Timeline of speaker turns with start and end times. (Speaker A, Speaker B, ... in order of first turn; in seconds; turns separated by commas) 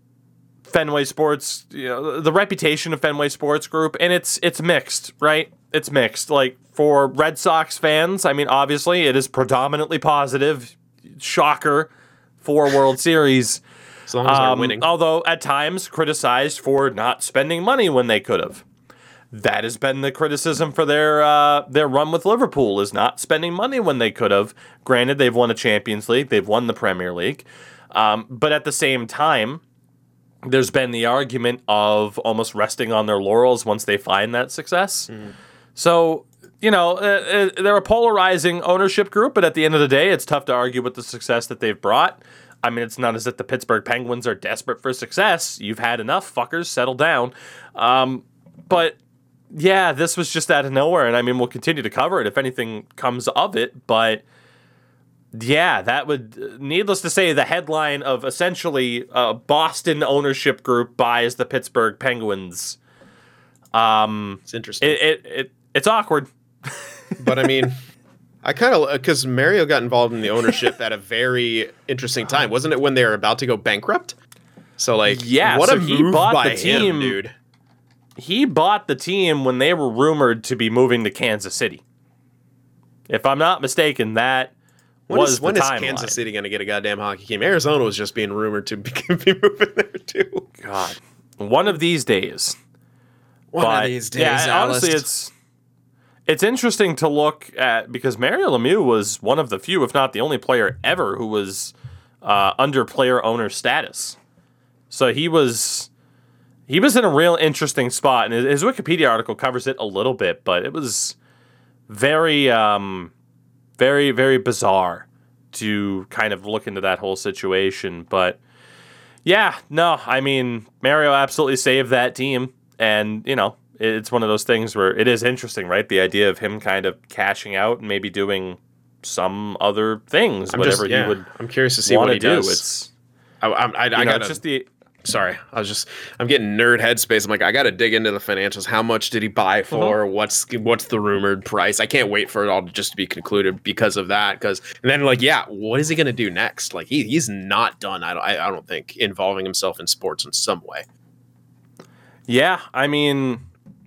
Speaker A: 0.7-11.9, Speaker A: 12.4-13.6, Speaker B: 14.1-14.9, Speaker A: 14.2-18.6, Speaker A: 19.3-29.6, Speaker A: 30.4-35.1, Speaker A: 35.8-49.0, Speaker A: 49.5-54.2, Speaker A: 55.3-62.8, Speaker A: 63.7-67.5, Speaker B: 64.5-65.0, Speaker B: 67.2-67.8, Speaker B: 68.4-74.2, Speaker B: 74.8-77.3, Speaker A: 75.1-77.2, Speaker A: 78.2-81.8, Speaker A: 83.1-84.5, Speaker A: 85.1-86.2, Speaker B: 85.1-90.5, Speaker A: 90.6-92.6, Speaker B: 93.5-95.1, Speaker A: 93.6-95.3, Speaker A: 96.3-104.2, Speaker A: 104.9-105.9, Speaker A: 106.7-111.2, Speaker A: 111.9-113.1, Speaker A: 113.8-118.4, Speaker A: 119.2-131.2, Speaker B: 130.5-132.7, Speaker A: 131.8-132.9, Speaker B: 133.4-134.4, Speaker A: 134.0-134.7, Speaker B: 135.0-150.9, Speaker A: 139.7-140.0, Speaker A: 152.3-153.4